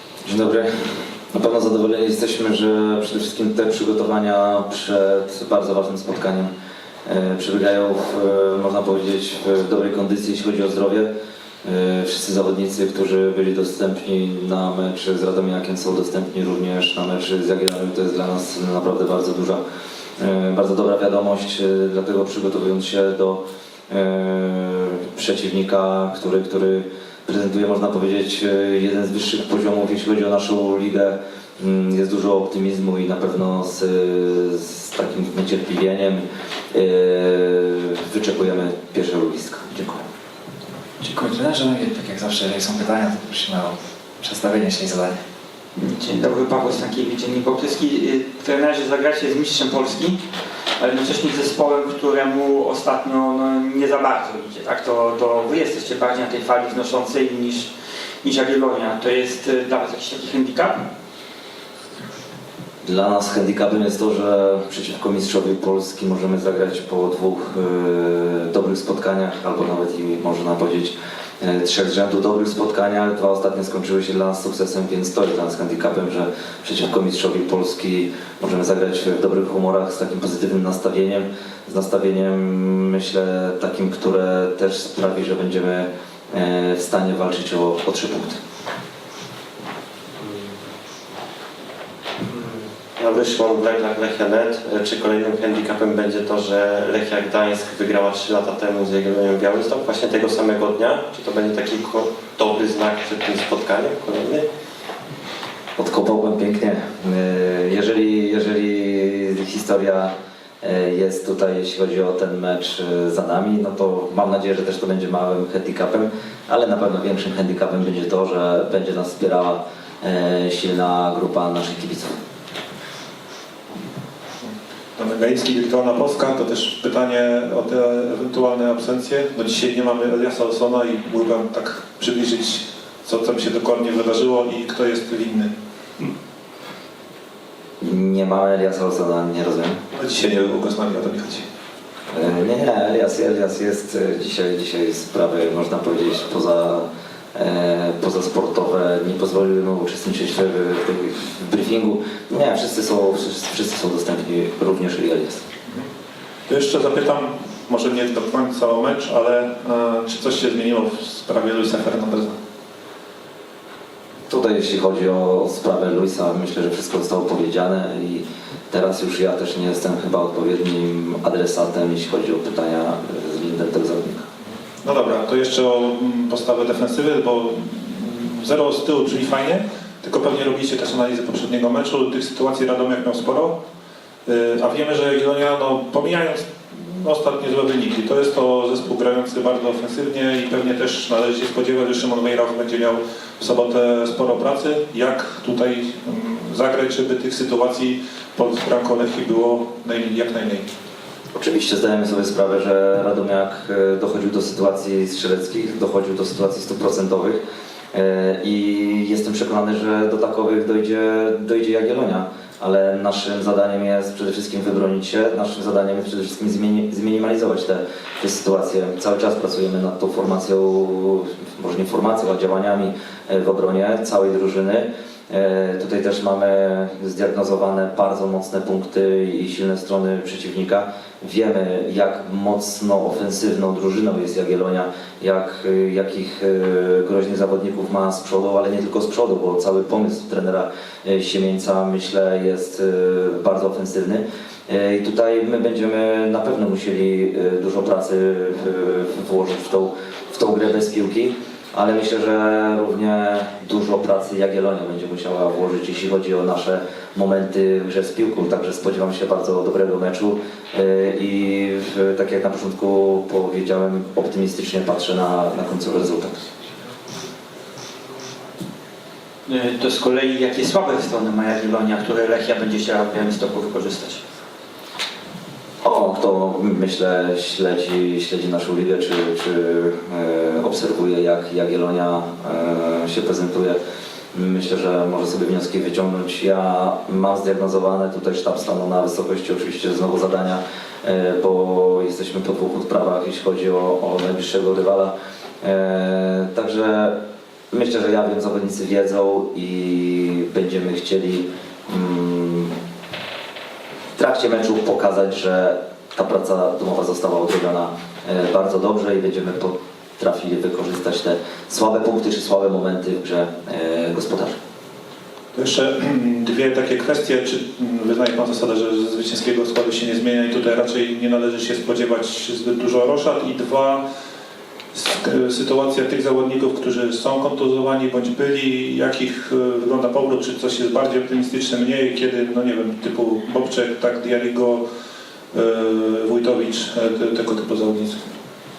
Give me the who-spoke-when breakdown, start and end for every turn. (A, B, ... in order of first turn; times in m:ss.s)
0:00.2-0:06.5 A
0:07.0-0:11.1 A
0:11.6-0:19.6 A
0:20.2-0:40.0 A
0:41.0-0:45.2 B
0:45.8-0:50.2 C
0:50.8-0:57.7 C
0:58.2-1:00.8 C
1:02.8-1:28.4 A
1:32.3-1:44.5 D
1:45.8-2:02.2 A
2:04.5-2:15.5 E
2:17.8-2:19.8 A
2:19.9-2:21.4 E
2:22.1-2:35.5 A
2:36.5-2:42.4 E
2:44.3-2:54.3 A
2:54.8-3:03.6 E
3:04.3-3:20.7 E
3:21.4-3:27.4 A
3:27.9-4:26.4 A
4:29.5-4:34.2 C
4:35.8-4:43.8 A
4:44.3-4:57.2 A
4:57.7-5:02.8 A
5:04.2-5:14.6 A
5:15.6-5:24.0 E
5:24.9-5:34.8 E
5:35.5-5:38.3 E